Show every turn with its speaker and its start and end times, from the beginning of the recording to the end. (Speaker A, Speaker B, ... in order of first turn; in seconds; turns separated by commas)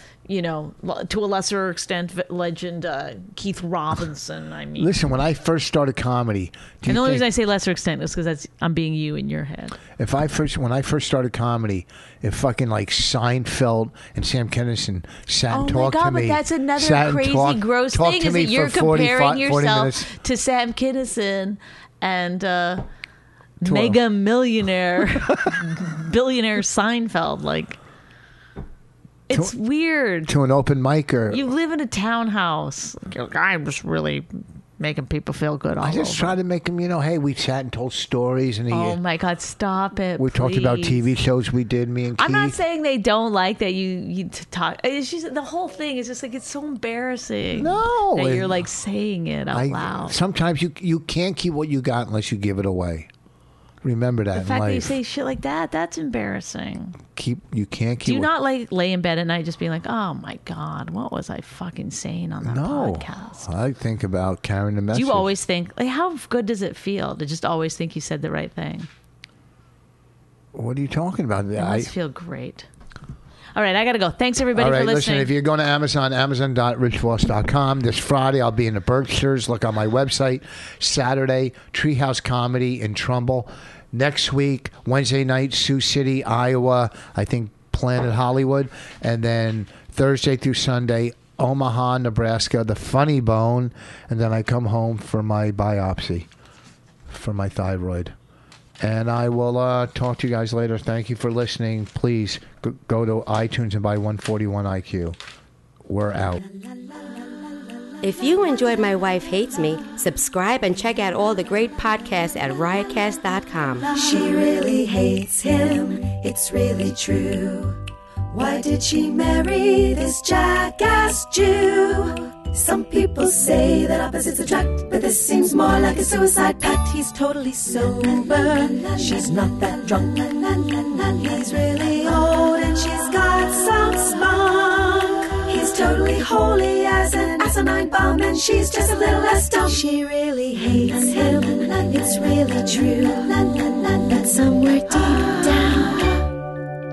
Speaker A: 0.2-4.9, Speaker B: 4.8-7.3, Speaker A: 6.8-9.8, Speaker B: 10.0-20.1, Speaker A: 15.5-22.8, Speaker A: 23.6-27.8, Speaker B: 23.6-24.0, Speaker B: 25.3-25.6, Speaker A: 29.3-30.3, Speaker B: 30.3-31.4, Speaker A: 31.3-34.3, Speaker A: 34.8-36.4, Speaker B: 35.8-39.0, Speaker A: 38.7-41.0, Speaker B: 40.2-42.6, Speaker A: 42.2-50.2, Speaker B: 47.5-48.6, Speaker B: 49.5-53.1, Speaker B: 53.8-54.9, Speaker A: 54.3-57.0, Speaker B: 57.1-58.3, Speaker A: 58.0-63.5, Speaker B: 62.4-65.3, Speaker A: 64.9-68.9, Speaker B: 70.5-71.9, Speaker A: 71.6-72.7, Speaker A: 73.5-75.3, Speaker B: 74.5-96.3, Speaker B: 97.1-98.1, Speaker B: 98.8-105.2, Speaker B: 105.8-106.4, Speaker C: 108.0-113.9, Speaker D: 113.8-117.8, Speaker D: 118.3-146.3